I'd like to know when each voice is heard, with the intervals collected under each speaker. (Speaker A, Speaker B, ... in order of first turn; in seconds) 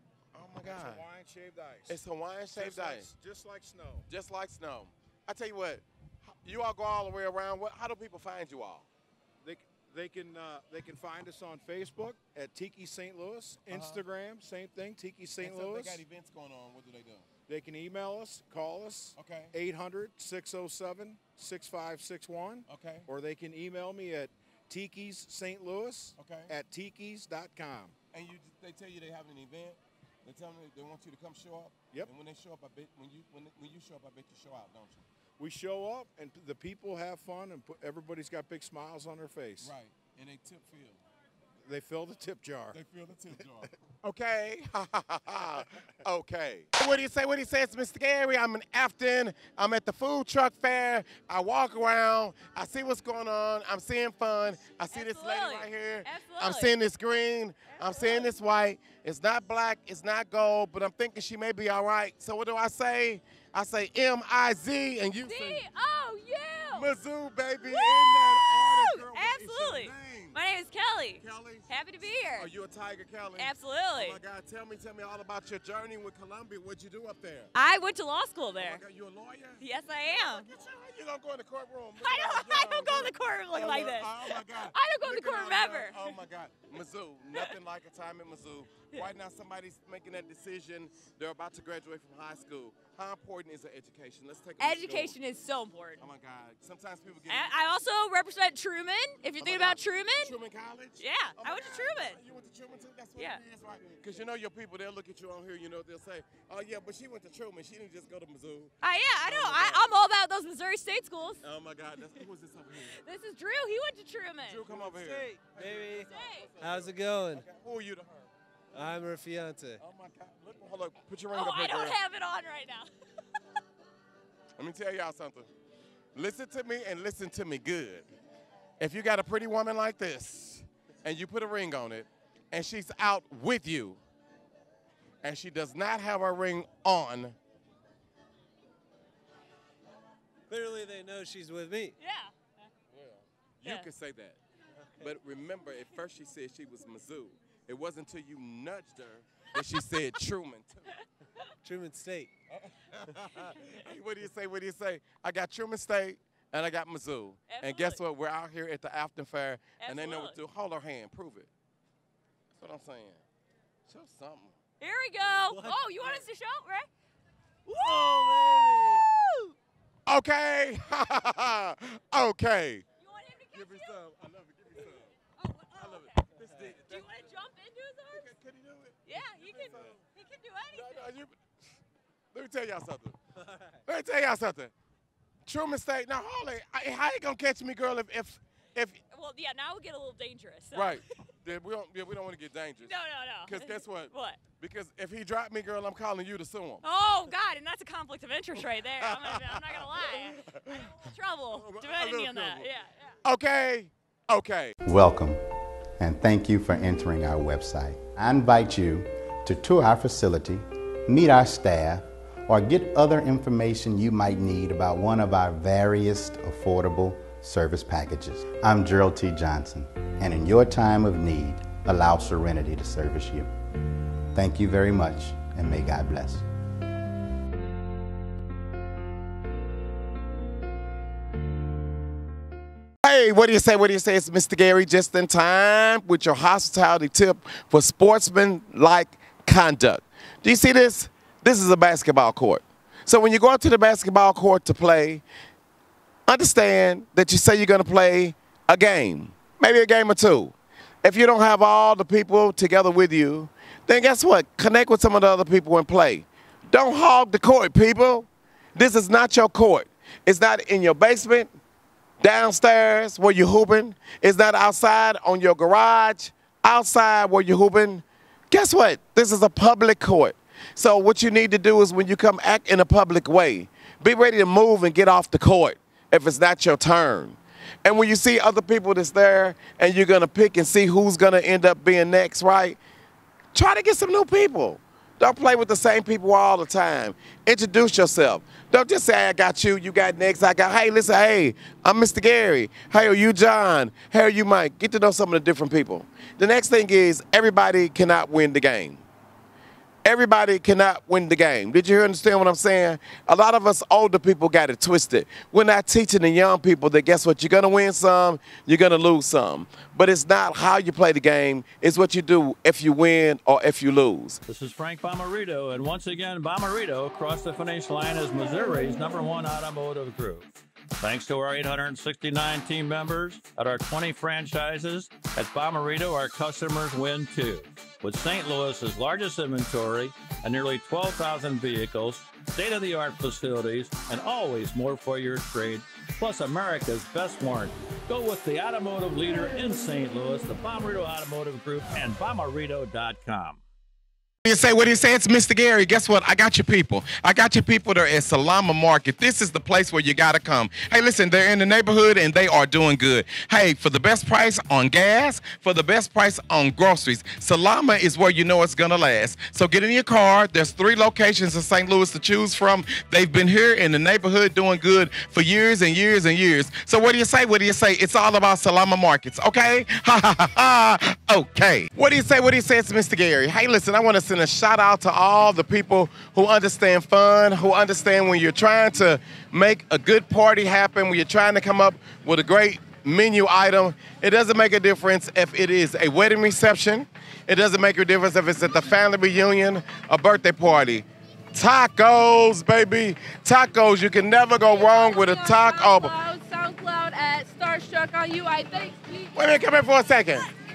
Speaker A: 0.3-1.0, 1.9-3.1, 4.1-8.9, 13.7-14.0, 15.4-17.3, 19.1-19.5, 22.7-23.1, 26.2-26.5, 28.1-35.0, 39.6-41.0, 42.7-65.6, 66.7-70.4, 71.2-71.7, 72.3-77.5, 78.5-95.2, 96.0-97.7, 99.4-109.8, 111.4-113.0, 114.4-118.3, 119.8-122.0, 124.6-125.5, 126.1-128.1, 128.8-134.0, 135.2-137.3, 143.0-144.4, 145.0-150.9, 152.5-161.5, 162.5-163.2, 163.9-164.6, 170.1-172.8, 173.5-175.2, 175.8-177.1, 178.1-180.0, 180.7-181.4, 182.3-183.2, 183.8-184.7, 185.4-189.0, 190.7-196.8, 198.6-200.9, 201.5-202.7, 203.2-204.7, 233.0-245.2, 246.3-261.5, 262.2-282.8, 283.5-299.0, 300.0-314.4, 344.4-396.1, 399.3-400.5
Speaker B: 0.6-4.1, 9.4-16.0, 17.5-27.9, 35.4-39.7, 41.6-42.8, 43.3-43.7
Speaker C: 54.9-56.7, 57.7-58.3, 65.2-66.9, 67.6-72.5, 73.4-74.2, 77.5-78.8, 79.6-80.5, 82.0-86.2, 94.6-96.0, 97.3-100.4, 101.0-102.2, 108.8-111.4, 113.0-114.7, 116.0-116.5, 121.3-122.9, 142.0-142.3, 143.6-143.9, 157.5-158.0, 159.8-160.4, 164.8-166.9, 167.8-168.4, 169.0-169.5, 173.0-174.0, 175.4-178.3, 179.0-181.1, 189.1-191.0, 192.8-194.4, 196.8-203.1
Speaker D: 114.7-117.5, 118.7-119.8, 140.5-141.9, 151.6-152.3, 165.5-166.2, 167.7-169.1, 176.4-176.8
Speaker E: 204.8-205.4, 206.0-223.5, 224.3-226.4
Speaker F: 314.5-320.5, 321.0-343.6
Speaker G: 394.7-399.4